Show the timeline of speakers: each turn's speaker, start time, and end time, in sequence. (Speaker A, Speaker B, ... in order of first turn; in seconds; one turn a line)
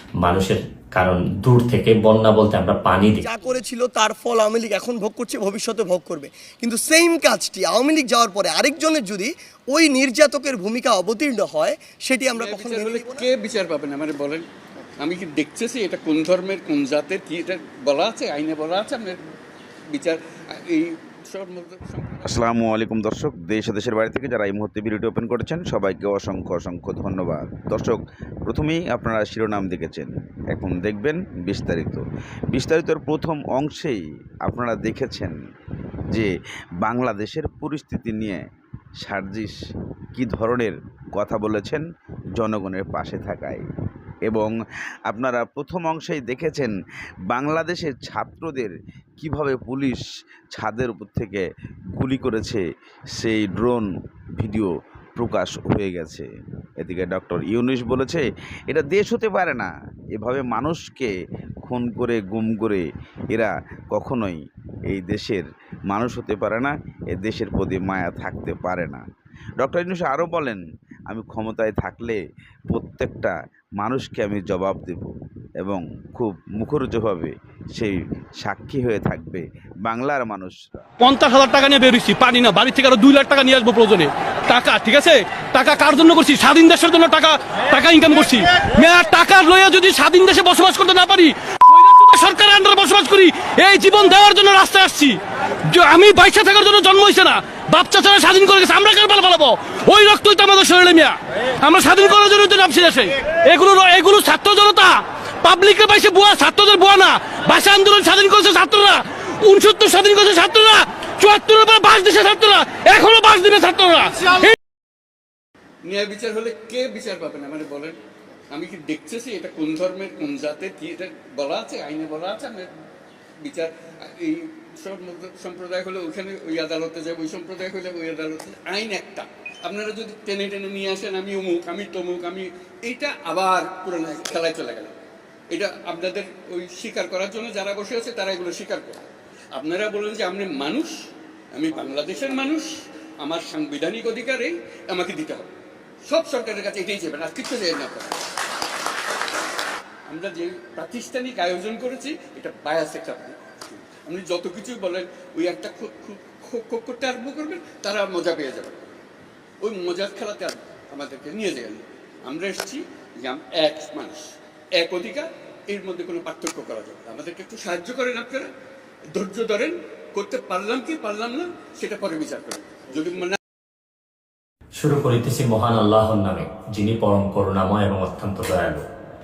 Speaker A: 0.2-3.2
Speaker B: 3.2-13.3
Speaker C: 12.3-14.4
Speaker C: 15.0-19.2
Speaker C: 19.9-22.5
Speaker D: 22.3-35.3
Speaker D: 36.8-38.4
Speaker D: 39.0-39.5
Speaker D: 40.2-41.8
Speaker D: 42.4-43.6
Speaker D: 44.3-44.5
Speaker D: 45.1-46.7
Speaker D: 47.3-50.0
Speaker D: 50.6-51.4
Speaker D: 52.0-52.6
Speaker D: 53.2-53.9
Speaker D: 54.4-56.2
Speaker D: 56.8-61.1
Speaker D: 61.7-64.4
Speaker D: 64.9-69.0
Speaker D: 69.6-72.2
Speaker D: 72.7-75.1
Speaker D: 75.6-80.6
Speaker E: 81.0-114.5
Speaker C: 115.8-118.0
Speaker C: 118.5-122.7
Speaker C: 123.4-134.9
Speaker C: 135.5-145.5
Speaker C: 146.1-148.2
Speaker C: 150.1-158.9
Speaker C: 159.6-164.3
Speaker C: 164.8-168.5
Speaker C: 169.2-173.4
Speaker A: 174.8-178.8